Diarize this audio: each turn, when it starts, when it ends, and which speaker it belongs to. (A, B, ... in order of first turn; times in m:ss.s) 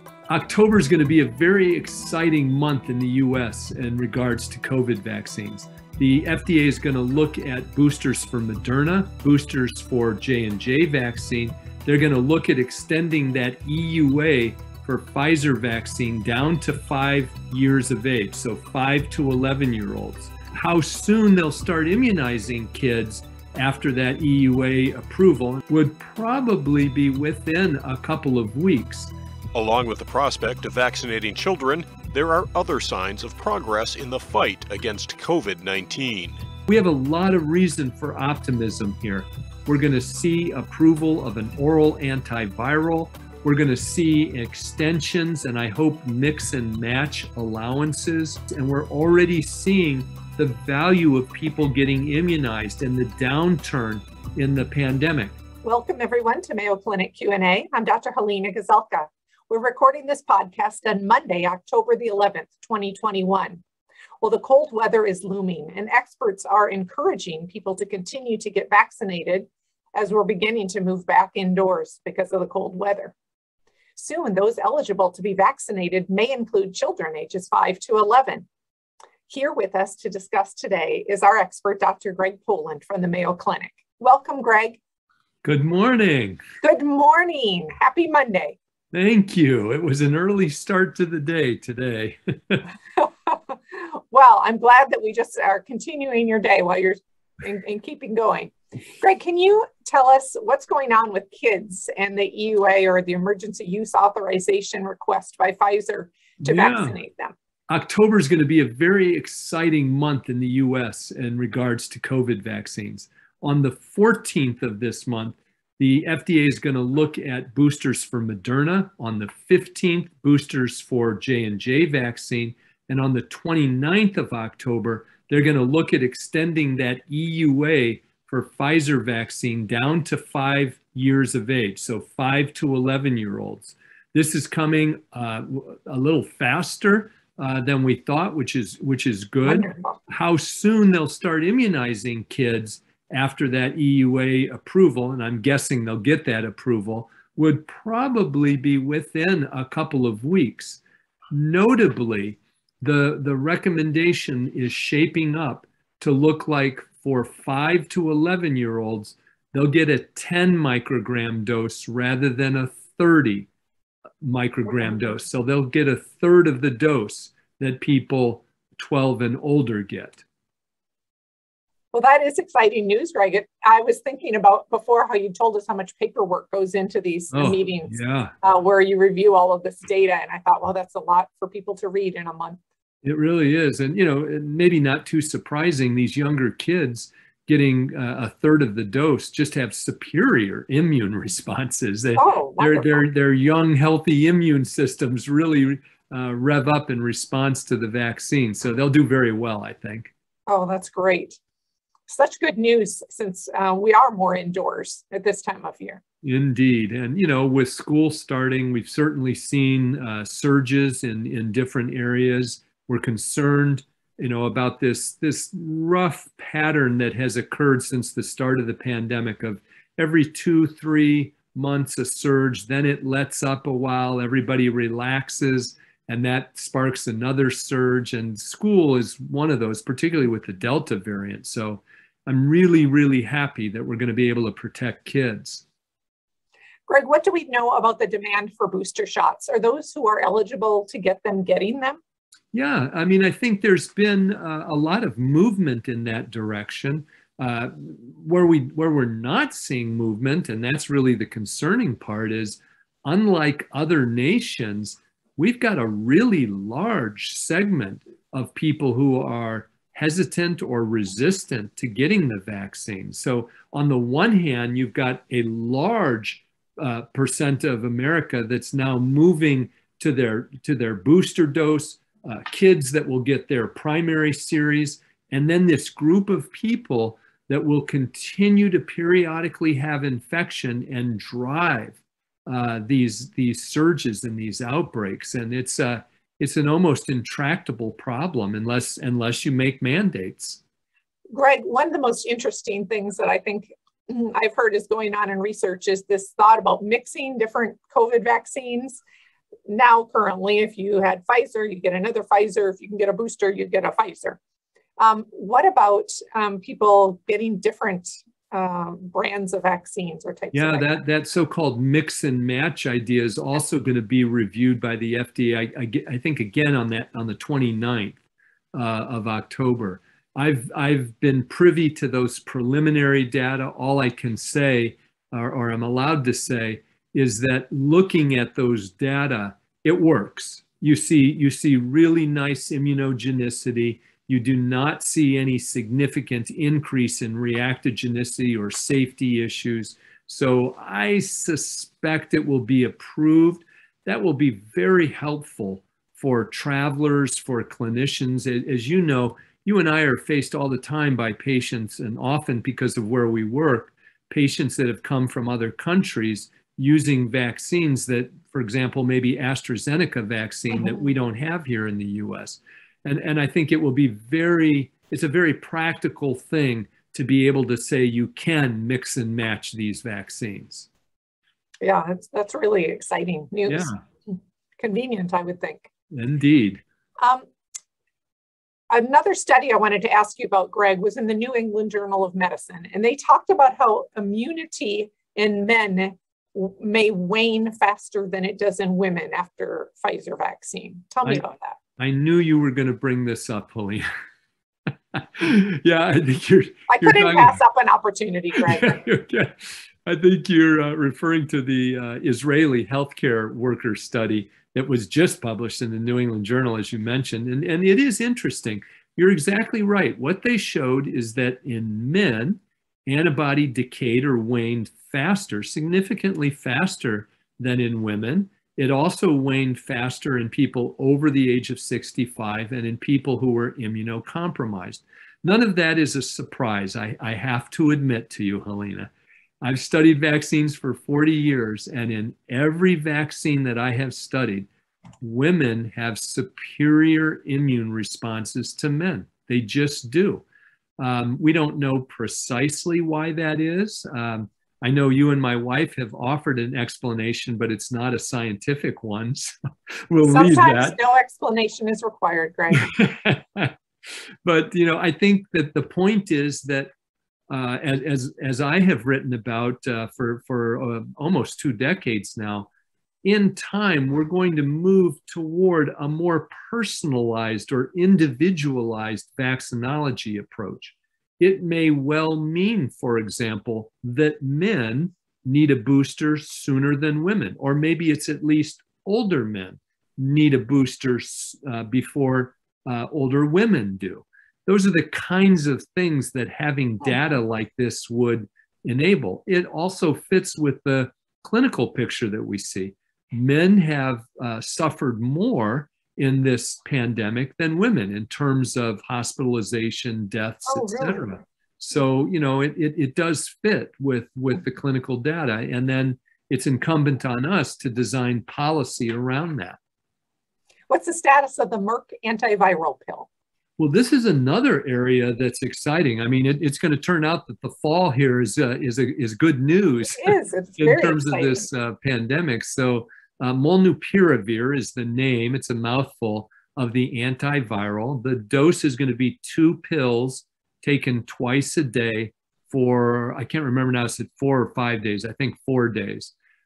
0:00.3-0:29.1 A
0:29.5-0:36.4 B
0:36.7-0:55.4 A
0:55.6-1:03.6 C
1:04.2-1:13.2 C
1:14.0-1:18.5 C
1:19.3-1:24.8 C
1:25.4-1:26.4 A
1:26.6-1:28.6 C
1:28.9-1:32.7 A
1:33.0-1:47.4 C
1:46.4-1:47.0 A
1:47.7-2:43.5 A
2:19.4-2:20.0 C
2:44.2-2:50.2 A
2:51.9-3:02.6 C
2:57.3-2:58.3 A
3:03.0-3:20.1 A
3:12.2-3:13.1 C
3:20.5-3:21.4 C
3:22.1-3:26.0 C
3:26.2-3:55.6 A
3:56.9-4:02.0 C
4:02.5-4:50.6 A
4:51.3-4:59.0 C
4:59.7-5:04.4 C
5:05.0-5:10.9 C
5:10.5-5:18.2 A
5:18.7-6:10.9 A
6:11.8-6:15.9 C
6:13.7-6:14.0 A
6:16.1-6:16.8 A
6:17.2-6:17.5 C
6:18.9-6:31.8 C
6:32.0-6:34.1 A
6:35.1-6:37.6 A
6:36.9-6:39.0 C
6:38.6-7:09.1 A
7:09.6-7:14.7 A
7:15.2-7:20.4 A
7:21.0-7:29.6 A
7:30.1-7:31.0 A
7:30.2-7:32.9 C
7:32.7-7:33.7 A
7:34.4-7:36.9 A
7:37.5-7:42.7 A
7:43.2-8:29.8 A
8:20.7-8:21.4 C
8:30.9-8:33.3 C
8:33.8-8:56.3 A
8:40.1-8:41.7 C